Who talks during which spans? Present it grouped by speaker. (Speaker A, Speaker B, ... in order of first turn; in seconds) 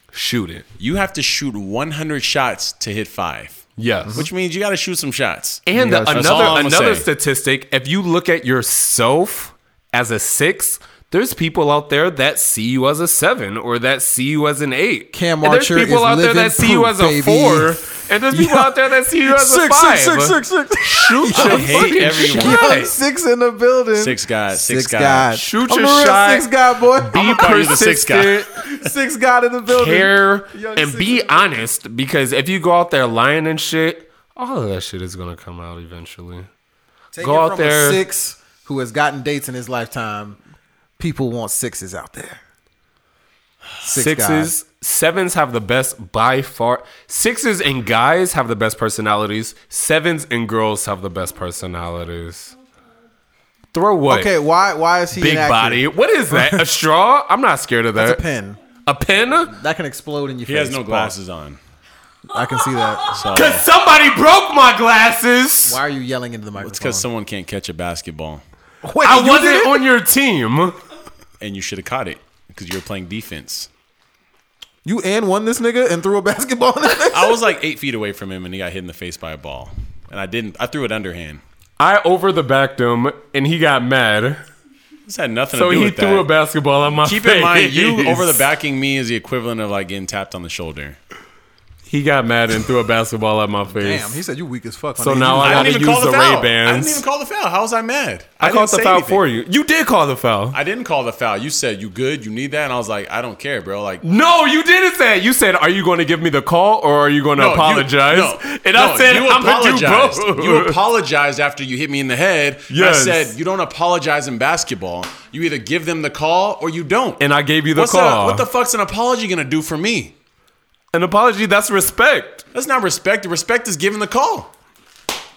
Speaker A: 0.1-0.6, 3.8-4.3, 5.7-22.9, 25.3-28.6, 29.7-36.5, 37.2-38.0, 43.9-52.5, 53.7-54.3, 55.1-58.2, 58.8-59.5, 63.3-65.8, 69.0-70.8, 81.8-84.5, 85.5-88.4, 91.9-94.2, 95.0-97.0, 98.4-100.6, 104.0-110.7, 112.7-113.4, 117.2-118.5, 120.9-122.4
Speaker B: 0.8-7.0, 21.3-22.6, 23.9-25.3, 27.1-28.7, 60.5-61.6, 63.1-63.6, 66.6-68.4, 71.4-73.7, 77.1-81.4, 85.1-86.3, 86.9-91.0, 95.4-99.2, 100.5-104.0, 107.4-120.1, 122.5-124.5
Speaker C: 5.7-6.6, 15.1-17.8, 18.3-27.4, 28.6-31.6, 37.1-40.4, 41.0-42.4, 43.8-44.5, 54.1-56.7, 58.0-58.6, 59.5-61.1, 62.3-63.1, 65.7-67.1, 68.8-69.9, 74.8-77.4, 93.7-95.8